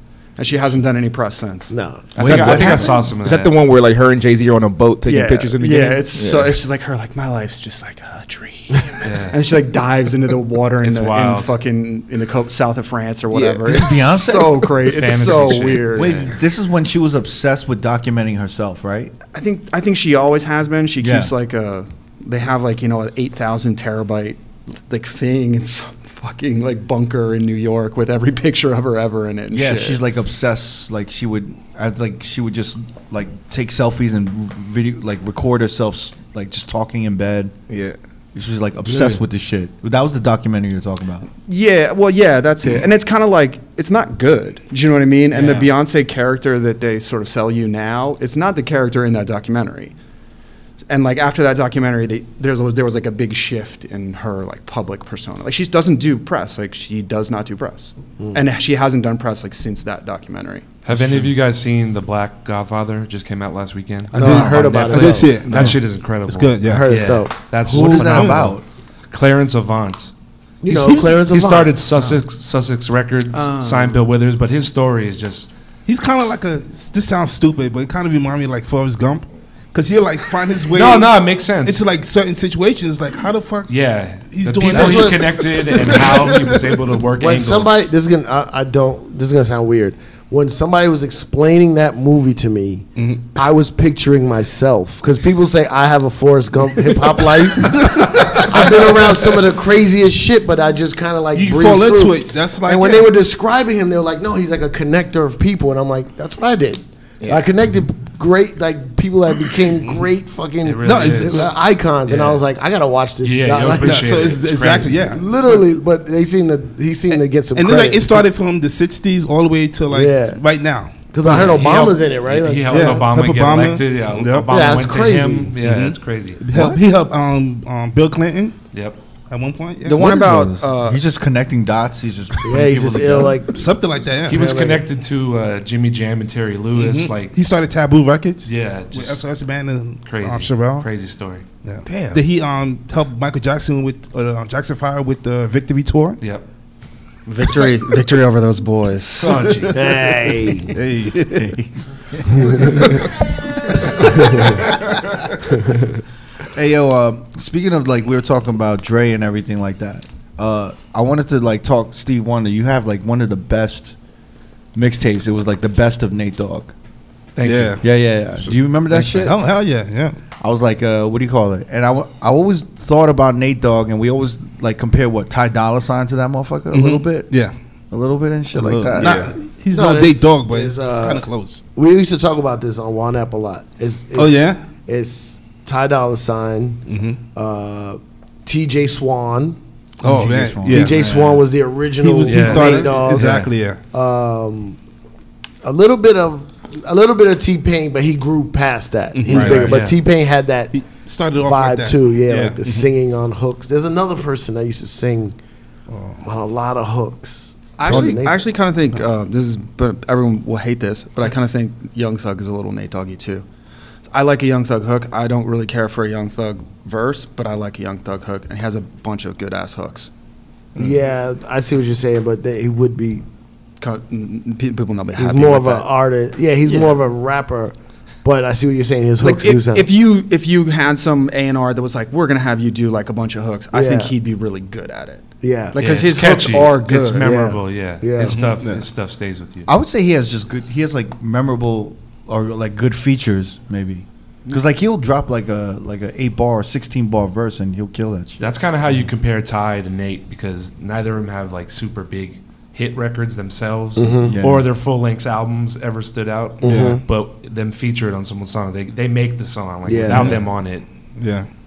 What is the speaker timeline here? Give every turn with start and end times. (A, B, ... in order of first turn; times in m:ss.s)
0:00.4-0:01.7 A
0:01.7-0:02.1 B
0:02.1-0:03.6 C
0:02.2-0:03.0 D
0:02.2-0:06.6 E
0:05.0-0:16.3 A
0:09.0-0:09.4 C
0:10.8-0:11.5 C
0:13.3-0:13.8 E
0:13.6-0:14.8 D
0:14.8-0:16.4 C
0:15.5-0:19.1 D
0:19.3-0:30.0 A
0:21.0-0:21.3 D
0:29.5-0:37.5 D
0:37.7-0:38.0 E
0:38.3-0:41.3 D
0:41.4-0:49.9 A
0:45.3-0:45.7 D
0:50.9-1:00.7 A
1:00.8-1:10.1 C
1:04.1-1:06.9 F
1:04.1-1:05.5 B
1:06.6-1:07.3 B
1:07.6-1:08.6 D
1:07.7-1:08.5 F
1:10.6-1:11.8 B
1:10.7-1:11.2 F
1:11.1-1:15.5 C
1:13.3-1:14.0 A
1:15.8-1:26.7 F
1:20.7-1:21.8 C
1:23.7-1:27.8 C
1:24.7-1:58.2 B
1:33.0-1:33.2 F
1:37.7-1:38.9 F
1:41.3-1:43.1 F
1:47.2-1:47.5 E
1:50.6-1:51.5 C
1:50.8-1:51.5 F
1:52.0-1:52.4 C
1:53.2-1:55.0 C
1:53.7-1:55.3 F
1:57.5-2:01.6 F
1:59.9-2:00.4 B
2:01.1-2:03.0 B
2:01.2-2:06.4 C
2:02.6-2:04.6 F
2:04.5-2:05.5 B
2:05.6-2:08.6 F
2:06.5-2:06.8 D
2:08.7-2:09.0 C
2:09.3-2:10.1 F
2:09.8-2:11.0 A
2:10.0-2:13.4 D
2:12.4-2:13.6 B
2:13.5-2:14.5 F
2:14.3-2:17.3 C
2:14.3-2:14.8 B
2:16.7-2:20.9 F
2:18.4-2:19.2 C
2:20.0-2:21.4 C
2:21.6-2:26.2 F
2:21.8-2:22.2 E
2:27.2-2:29.4 A
2:29.2-2:30.2 C
2:29.7-2:30.7 B
2:30.7-2:31.4 F
2:30.9-2:33.1 D
2:34.0-2:34.6 B
2:34.3-2:35.1 D
2:36.5-2:43.9 D
2:44.7-2:46.7 D
2:47.4-2:47.8 C
2:47.4-2:47.8 F
2:47.8-2:49.4 D
2:48.9-2:50.2 F
2:50.4-2:57.3 D
2:56.7-2:57.5 F
2:57.9-2:59.2 D
2:58.5-3:01.6 F
2:59.0-2:59.4 E
2:59.7-3:09.6 B
3:04.1-3:04.6 F
3:06.9-3:07.2 F
3:10.0-3:11.0 D
3:10.0-3:11.0 F
3:10.6-3:14.8 B
3:10.9-3:11.4 C
3:12.0-3:13.8 F
3:12.2-3:13.4 C
3:15.6-3:20.7 B
3:19.1-3:19.9 F
3:19.4-3:20.0 C
3:20.7-3:22.9 F
3:21.4-3:25.4 B
3:25.9-3:26.3 F
3:26.2-3:28.4 B
3:27.8-3:33.4 A
3:27.8-3:28.2 F
3:34.1-3:40.1 A
3:40.8-3:43.2 B
3:43.8-3:45.9 A
3:45.2-3:49.9 B
3:46.6-3:47.0 A
3:49.2-3:57.3 A
3:53.7-3:54.1 B
3:55.4-3:55.8 B
3:55.8-3:59.7 C
3:57.2-3:58.4 B
3:58.2-3:58.9 F
3:59.6-4:08.5 D
4:08.4-4:20.8 C
4:14.0-4:14.3 B
4:14.3-4:14.7 D
4:16.6-4:17.0 B
4:16.6-4:17.0 F
4:19.9-4:20.3 B
4:20.1-4:20.6 F
4:21.2-4:21.5 F